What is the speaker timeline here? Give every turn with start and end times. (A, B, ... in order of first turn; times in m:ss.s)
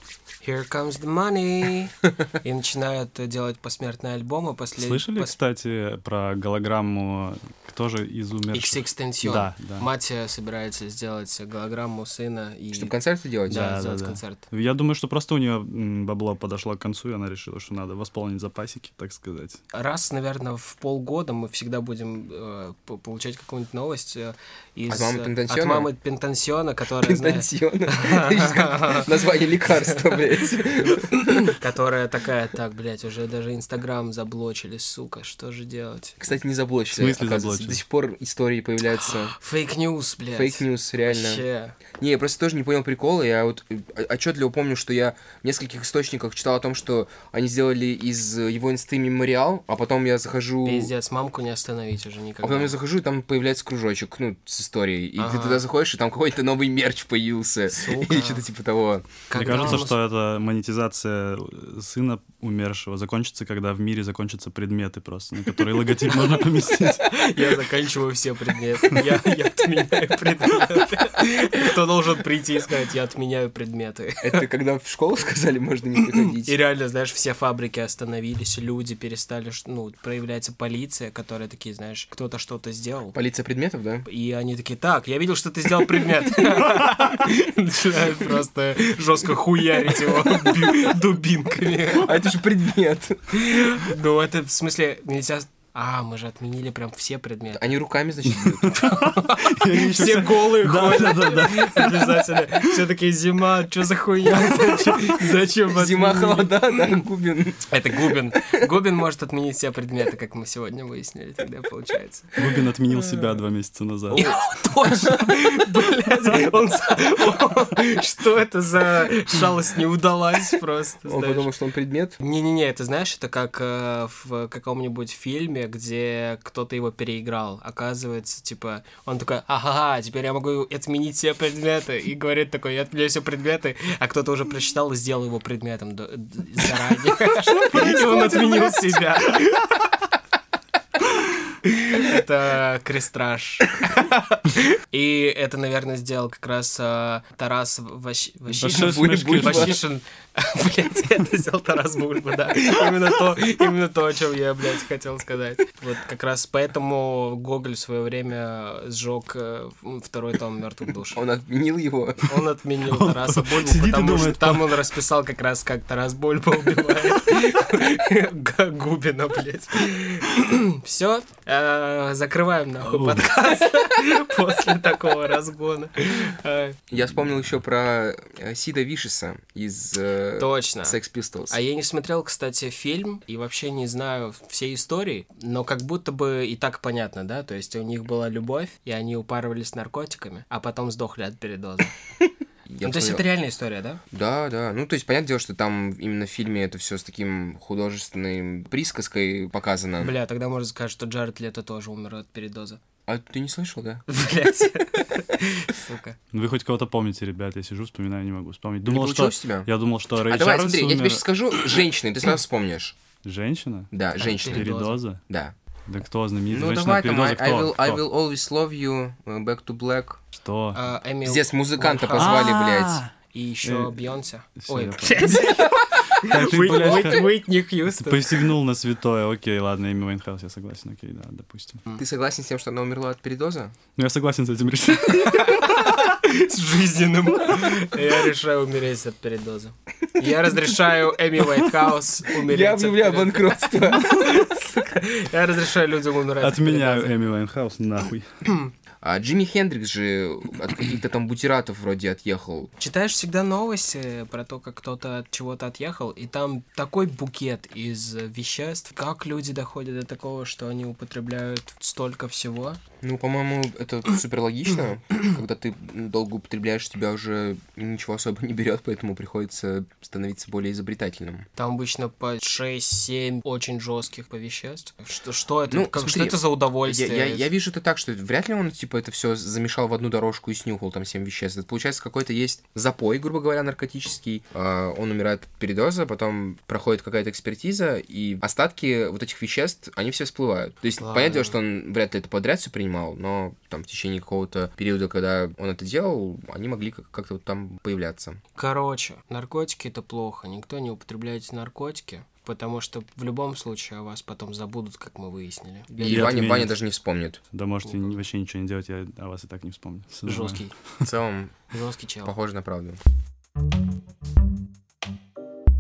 0:00.4-0:05.4 A
0:04.8-0:09.9 B
0:08.5-0:12.9 A
0:12.7-0:13.7 C
0:13.5-0:14.4 A
0:13.5-0:19.6 B
0:19.7-0:29.1 A
0:24.9-0:25.9 C
0:27.0-0:31.6 C
0:29.7-0:30.2 A
0:30.8-0:36.2 A
0:36.2-0:39.4 C
0:37.0-0:37.8 B
0:39.0-0:41.8 A
0:40.3-0:41.4 C
0:42.0-0:50.9 C
0:50.6-0:52.8 A
0:52.4-0:59.8 C
0:55.2-0:55.6 A
0:57.7-0:58.5 A
0:59.3-1:00.0 A
0:59.4-1:07.2 B
1:06.1-1:14.4 A
1:14.2-1:16.5 C
1:16.3-1:23.2 A
1:23.1-1:24.0 C
1:24.1-1:32.2 A
1:31.9-1:33.6 C
1:33.3-1:37.6 A
1:37.5-1:38.9 C
1:38.3-1:42.5 B
1:38.7-1:46.9 A
1:45.7-1:47.7 C
1:47.7-1:53.3 A
1:52.4-1:54.2 B
1:54.1-2:01.5 A
1:54.1-1:55.1 C
2:01.1-2:02.2 C
2:02.2-2:19.8 A
2:21.6-2:41.2 A
2:28.6-2:29.8 B
2:28.7-2:29.8 C
2:41.2-2:42.3 C
2:42.3-2:56.8 A
2:42.9-2:44.8 B
2:52.8-2:53.3 B
2:56.9-3:01.6 C
3:00.4-3:01.0 A
3:01.5-3:11.9 A
3:12.7-3:13.2 C
3:12.8-3:14.0 A
3:14.1-3:20.1 C
3:20.0-3:22.8 A
3:23.1-3:24.0 C
3:24.1-3:26.2 A
3:26.3-3:31.2 B
3:28.9-3:29.7 C
3:30.3-3:33.0 C
3:33.2-3:35.2 B
3:33.9-3:34.7 C
3:34.4-3:35.0 A
3:35.3-3:35.5 C
3:35.9-3:38.0 B
3:36.5-3:40.2 C
3:40.4-3:40.8 B
3:40.7-3:42.6 A
3:41.2-3:43.0 C
3:42.2-3:43.1 B
3:43.3-3:48.5 A
3:43.6-3:47.3 B
3:46.5-3:47.2 C
3:47.9-3:51.8 B
3:52.0-3:53.7 C
3:54.0-3:55.9 B
3:55.1-4:07.1 A
4:02.4-4:04.5 C
4:06.4-4:08.3 B
4:08.5-4:08.7 A
4:09.0-4:12.7 C
4:12.8-4:22.8 A
4:23.0-4:31.5 C
4:31.6-4:37.4 A
4:35.7-4:58.4 C
4:51.0-4:51.6 A
4:58.6-5:06.4 A
5:06.0-5:07.4 C
5:06.0-5:06.8 B
5:07.5-5:10.6 B
5:07.8-5:08.2 A
5:10.3-5:10.7 A
5:11.0-5:11.6 C
5:11.7-5:12.3 A
5:12.2-5:13.0 C